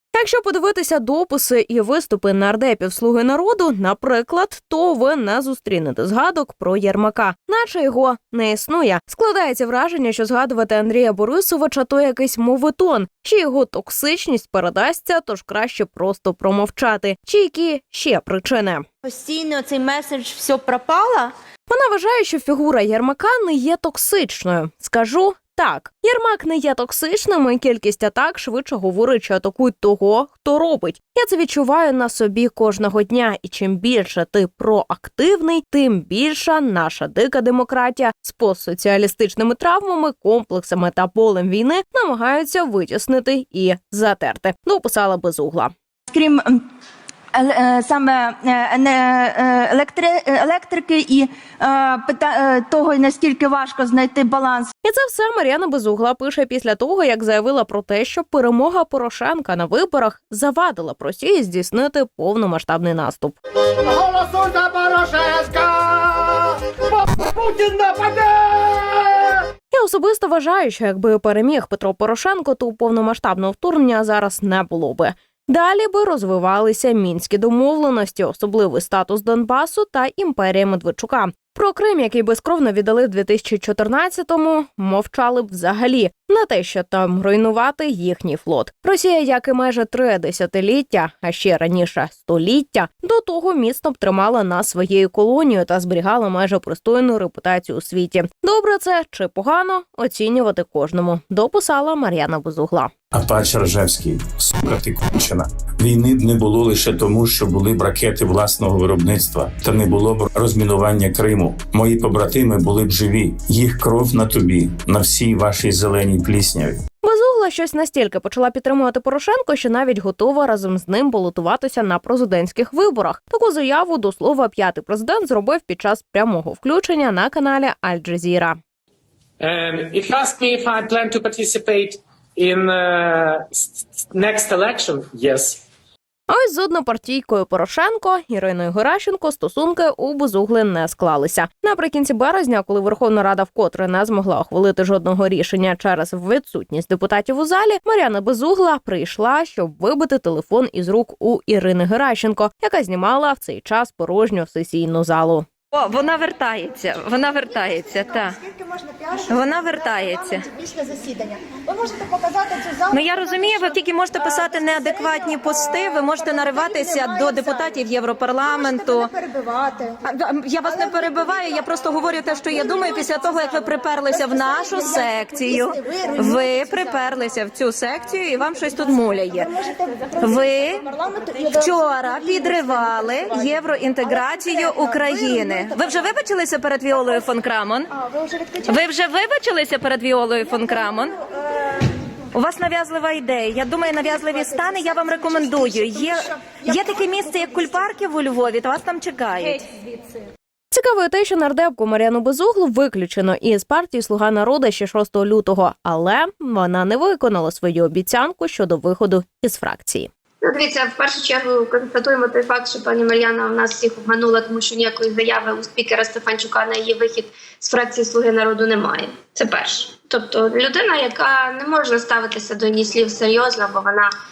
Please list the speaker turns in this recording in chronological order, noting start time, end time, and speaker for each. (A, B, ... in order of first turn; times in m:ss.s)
0:00.1-0:18.8 A
0:19.0-0:21.3 B
0:21.7-0:45.7 A
0:46.1-0:46.6 B
0:47.3-0:54.7 B
0:54.8-1:03.4 A
1:03.9-1:06.0 C
1:07.4-1:08.8 C
1:09.7-1:42.9 A
1:43.1-1:56.8 D
1:57.0-2:08.6 A
2:09.4-2:15.6 E
2:16.3-2:35.5 A
2:35.7-2:38.4 F
2:39.2-2:40.5 F
2:41.3-2:42.6 B
2:42.8-2:49.2 F
2:50.0-2:59.6 F
2:59.7-3:00.0 B
3:00.2-3:07.9 F
3:08.6-3:11.2 F
3:12.3-3:19.7 F
3:20.7-3:30.1 A
3:30.4-3:44.1 G